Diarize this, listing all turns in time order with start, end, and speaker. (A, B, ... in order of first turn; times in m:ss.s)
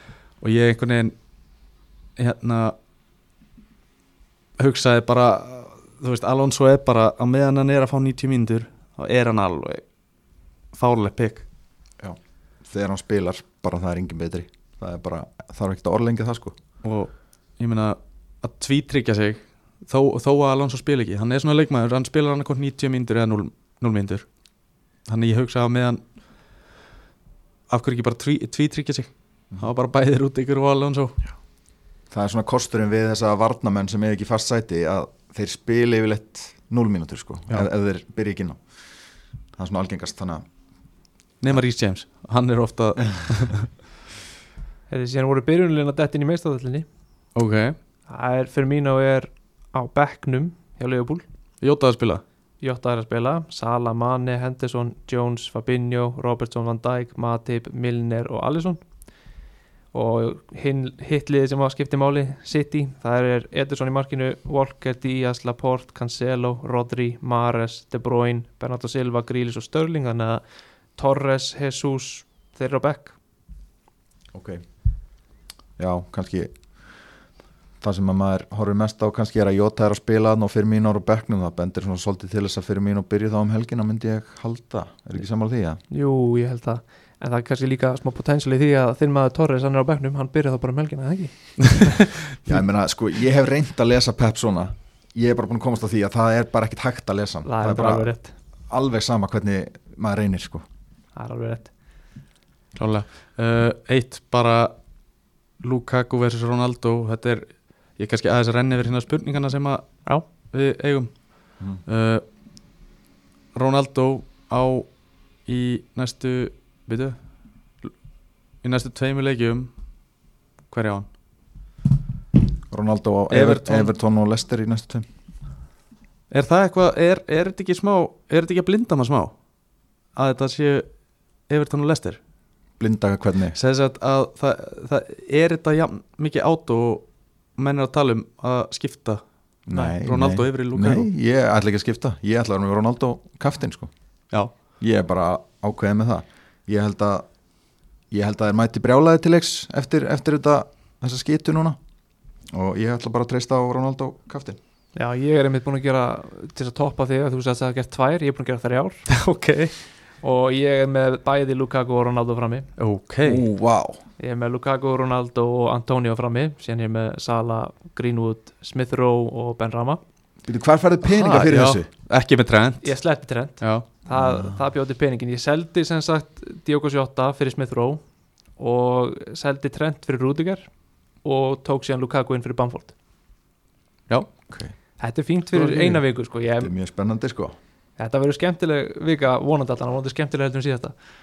0:00.4-0:01.1 A
0:02.2-0:02.7 A
0:04.6-0:09.8 A
0:10.7-0:11.4 A
0:12.0-0:16.5 B
0:16.8-0:24.3 A
0:25.1-0:26.0 A
0:27.7-0:31.2 A
0:32.1-0:38.6 B
0:39.6-0:40.4 B
0:41.4-0:43.7 A
0:44.9-0:46.9 C
0:47.3-0:47.8 A
0:48.1-0:51.2 C
0:51.6-0:52.2 A
0:52.6-0:58.8 C
0:59.9-1:10.4 C
1:11.0-1:13.2 C
1:14.3-1:14.6 B
1:15.8-1:16.5 B
1:17.8-1:25.8 B
1:25.9-1:32.1 C
1:32.4-1:38.1 B
1:37.4-1:38.3 C
1:38.7-1:40.6 B
1:41.2-1:41.7 C
1:42.7-1:44.7 A
1:45.6-1:51.2 A
1:51.8-1:52.2 A
1:53.5-1:54.9 A
1:55.4-1:57.2 A
1:58.6-1:59.7 A
2:00.7-2:01.1 A
2:02.7-2:05.0 B
2:03.3-2:03.9 A
2:06.3-2:09.3 A
2:10.2-2:10.9 A
2:11.5-2:12.2 A
2:12.8-2:13.6 B
2:13.5-2:21.1 A
2:19.7-2:23.9 B
2:24.8-2:27.3 B
2:28.1-2:31.8 B
2:32.5-2:34.6 B
2:35.0-2:39.1 C
2:39.1-2:39.7 A
2:40.2-2:42.7 C
2:42.8-2:43.4 A
2:43.2-2:44.0 B
2:44.2-2:50.0 C
2:50.4-2:51.9 B
2:51.1-2:52.9 A
2:52.8-2:58.0 C
2:54.1-2:54.6 B
2:58.6-3:00.7 C
3:01.2-3:02.9 C
3:05.0-3:06.7 C
3:05.5-3:06.0 A
3:06.6-3:07.6 B
3:08.0-3:10.9 C